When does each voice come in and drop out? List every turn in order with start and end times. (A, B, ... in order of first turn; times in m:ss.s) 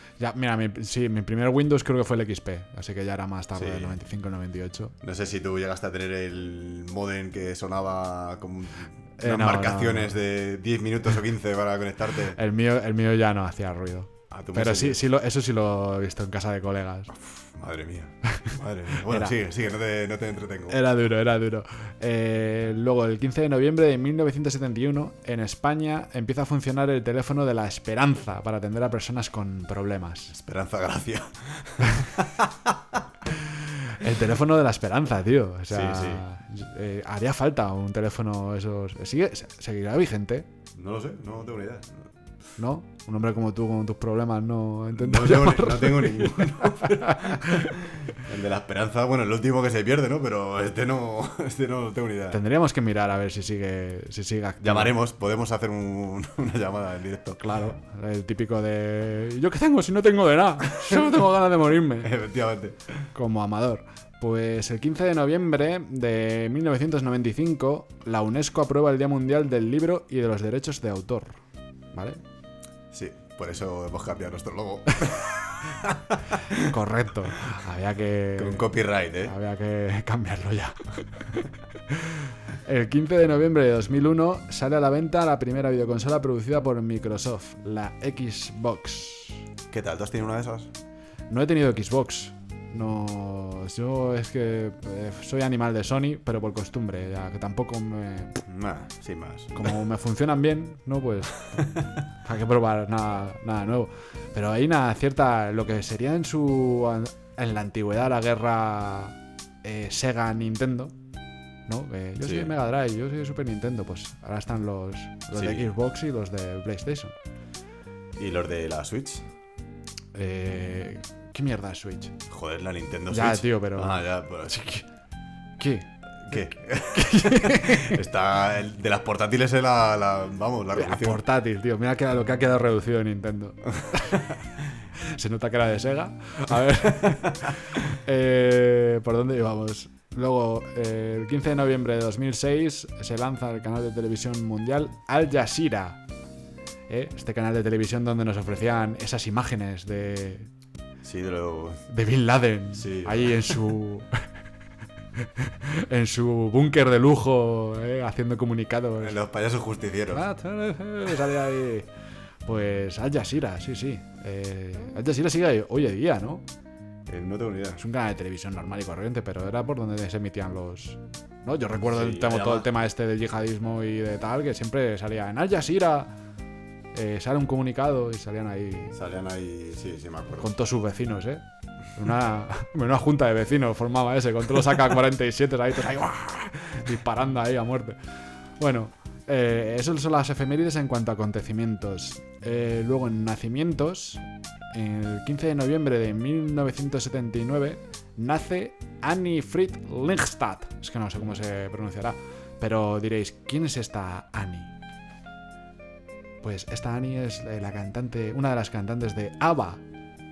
0:00.2-0:04.9 A
0:03.5-0:04.0 B
0:05.0-0:12.4 B
0:09.2-0:10.2 A
0:12.3-0:17.1 A
0:14.3-0:15.0 B
0:17.5-0:20.8 B
0:18.3-0:19.3 A
0:20.7-0:30.3 A
0:30.3-0:33.0 B
0:33.8-0:40.5 A
0:35.7-0:36.2 B
0:40.7-0:42.1 B
0:42.6-0:47.7 A
0:44.9-0:52.4 B
0:52.3-0:54.9 A
0:54.6-0:57.4 B
0:57.4-1:02.2 A
1:02.0-1:02.9 B
1:03.1-1:11.4 A
1:11.9-1:12.2 A
1:12.9-1:16.7 B
1:16.6-1:29.4 A
1:18.4-1:19.3 B
1:29.7-1:30.7 B
1:31.3-1:38.4 A
1:38.4-1:39.8 B
1:39.5-1:41.4 A
1:42.2-1:50.9 A
1:51.7-1:57.1 A
1:52.2-1:52.5 B
1:55.3-1:55.7 B
1:58.2-1:59.3 B
2:00.1-2:02.2 A
2:02.3-2:04.6 B
2:03.1-2:04.8 A
2:05.6-2:08.0 A
2:06.2-2:11.2 B
2:10.7-2:14.3 A
2:15.1-2:26.0 A
2:26.9-2:30.5 A
2:31.0-2:31.8 B
2:31.9-2:34.1 A
2:32.7-2:33.6 B
2:35.4-2:39.2 A
2:39.0-2:40.2 B
2:40.1-2:41.9 A
2:42.4-2:46.4 A
2:47.1-2:47.8 B
2:47.8-2:56.1 A
2:51.9-2:52.7 B
2:56.9-2:58.9 A
2:58.9-3:00.5 B
3:00.4-3:01.4 A
3:02.0-3:08.0 A
3:08.6-3:24.7 A
3:26.4-3:29.8 A